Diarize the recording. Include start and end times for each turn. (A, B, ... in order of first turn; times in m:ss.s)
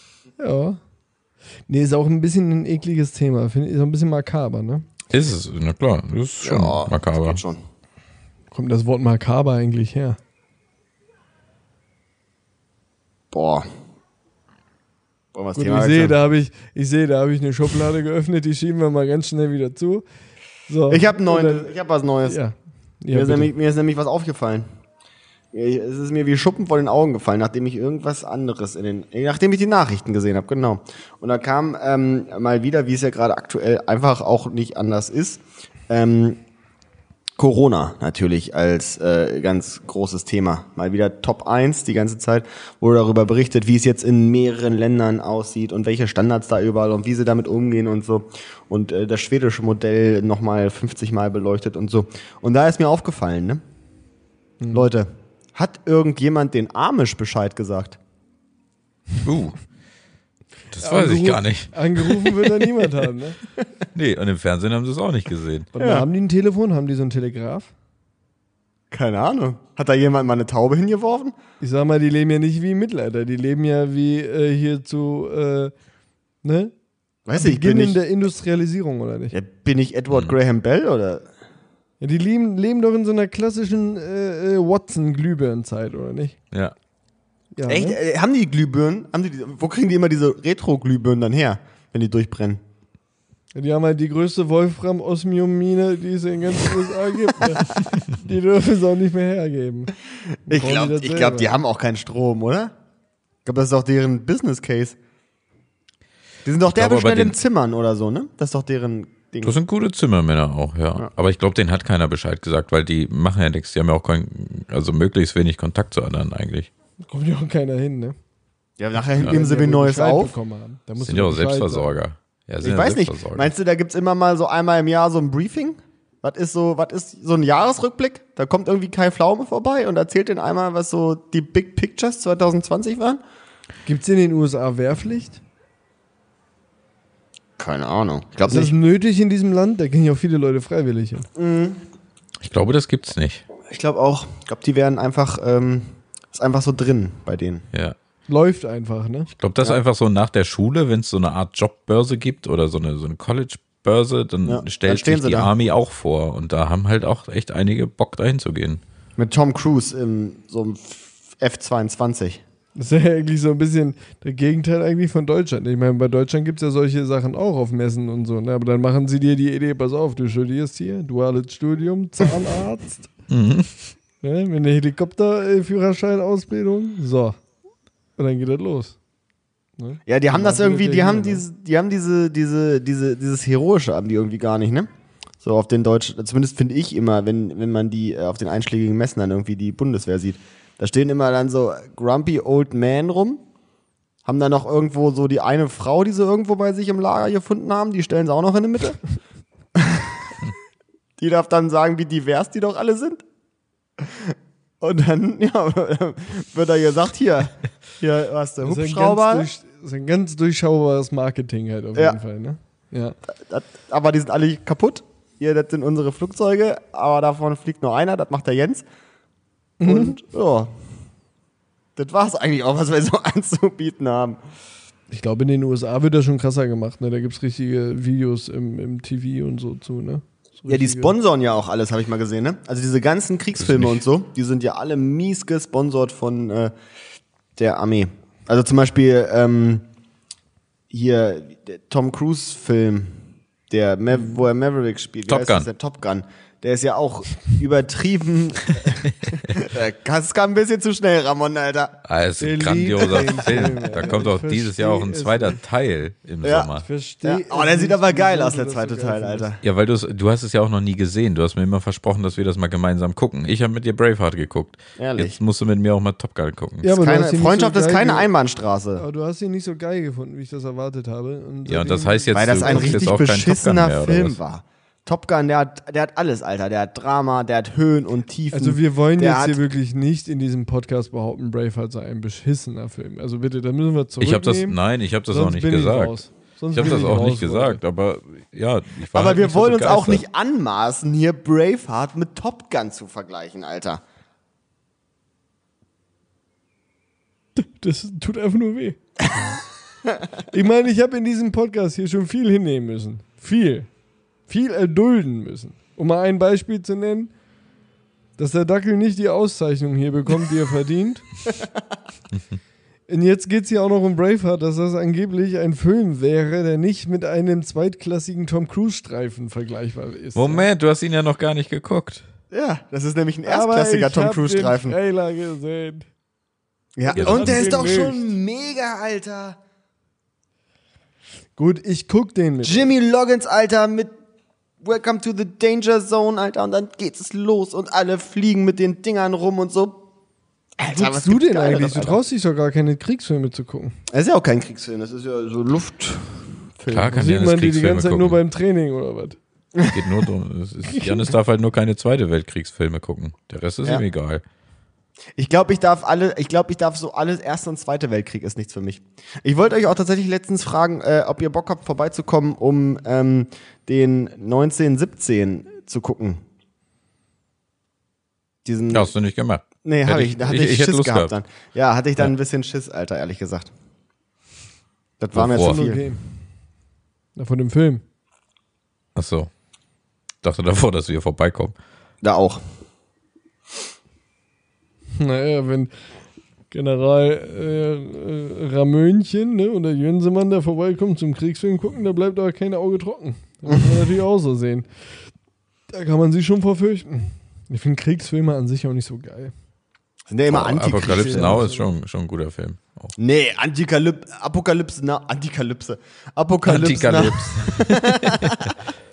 0:00.4-0:00.8 A
0:01.7-0:04.8 A
0:05.1-0:07.4 B
0:06.4-0:07.6 C
0:08.5-0:10.2 A
0:13.3-0:13.7 C
0:15.3-0:16.2 C
0:15.6-0:20.0 A
0:20.7-0:21.7 A
0:20.9-0:22.4 C
0:22.2-0:23.5 A
0:23.1-0:24.6 C
0:25.5-0:36.4 C
0:37.4-0:53.6 C
0:54.6-0:54.9 A
0:54.7-0:58.0 C
0:59.2-0:59.6 B
1:00.7-1:02.3 B
1:00.8-1:03.4 A
1:03.9-1:05.7 B
1:05.7-1:07.7 A
1:05.8-1:06.0 C
1:08.9-1:11.4 C
1:11.6-1:15.7 A
1:16.4-1:16.7 A
1:17.3-1:18.0 C
1:17.3-1:19.3 A
1:19.3-1:21.3 C
1:22.0-1:26.4 A
1:27.5-1:28.0 A
1:27.6-1:32.6 C
1:33.5-1:39.9 A
1:40.5-1:42.7 C
1:40.5-1:41.5 A
1:43.4-1:45.0 C
1:46.4-1:49.6 C
1:46.7-1:47.3 B
1:49.4-1:56.7 B
1:57.1-1:58.2 A
1:58.8-2:00.3 C
1:59.1-2:01.9 A
2:01.0-2:03.5 B
2:02.6-2:13.2 C
2:13.8-2:15.4 A
2:17.6-2:18.7 C
2:18.5-2:21.3 A
2:21.4-2:21.8 C
2:22.4-2:23.4 B
2:23.7-2:27.6 C
2:28.3-2:29.3 A
2:29.4-2:38.8 B
2:34.4-2:35.5 C
2:39.2-2:42.4 C
2:42.8-2:53.1 A
2:53.3-2:53.9 B
2:54.2-2:57.4 A
2:58.2-2:59.0 A
2:59.8-3:01.4 A
3:00.1-3:04.9 C
3:05.4-3:13.4 C
3:14.2-3:19.0 C
3:19.7-3:20.3 C
3:21.2-3:23.2 C
3:24.0-3:29.5 C
3:28.6-3:33.2 A
3:33.5-3:38.8 C
3:39.8-3:40.2 A
3:39.8-3:40.7 C
3:42.0-3:44.4 C
3:45.1-3:51.1 A
3:50.7-3:56.7 C
3:53.6-3:54.0 B
3:57.6-3:59.8 C
4:00.9-4:12.0 C
4:05.3-4:05.7 B
4:12.1-4:16.8 B
4:12.4-4:15.6 A
4:13.2-4:14.2 C
4:16.4-4:16.7 C
4:16.8-4:19.5 A
4:17.2-4:19.6 C
4:19.6-4:26.9 B
4:25.0-4:25.4 C
4:26.8-4:28.3 A
4:26.9-4:29.0 C
4:29.0-4:33.1 A
4:31.6-4:34.4 B
4:32.3-4:39.6 C
4:38.5-4:44.8 A
4:44.2-4:46.2 B
4:45.3-4:47.8 A
4:46.7-4:50.2 B
4:49.1-4:54.0 C
4:57.5-4:59.0 A
5:00.5-5:03.9 A
5:04.5-5:07.3 A
5:08.4-5:11.2 A
5:13.1-5:20.7 A
5:20.3-5:22.2 B
5:22.5-5:25.0 C
5:23.4-5:26.0 A
5:27.0-5:29.6 C
5:27.1-5:28.3 A
5:27.1-5:27.7 B
5:31.6-5:32.9 A
5:32.6-5:34.1 C
5:34.8-5:40.0 C
5:40.8-5:42.2 C
5:40.9-5:43.9 A
5:44.1-5:47.1 C
5:46.9-5:48.4 B
5:47.1-5:49.4 A
5:49.8-5:50.0 C
5:49.9-5:54.4 B
5:50.9-5:51.2 A
5:55.4-6:06.4 C
6:08.6-6:09.1 C
6:08.9-6:11.3 B
6:09.8-6:13.7 C
6:15.2-6:16.0 C
6:15.3-6:15.8 B
6:15.4-6:16.4 A
6:17.4-6:18.0 A
6:19.2-6:19.5 B
6:20.4-6:21.7 B
6:22.2-6:22.6 C
6:25.2-6:25.9 A
6:26.7-6:34.9 A
6:35.9-6:39.5 A
6:40.3-6:41.7 C
6:40.5-6:43.1 B
6:41.0-6:41.9 A
6:43.2-6:48.8 C
6:46.6-6:48.6 B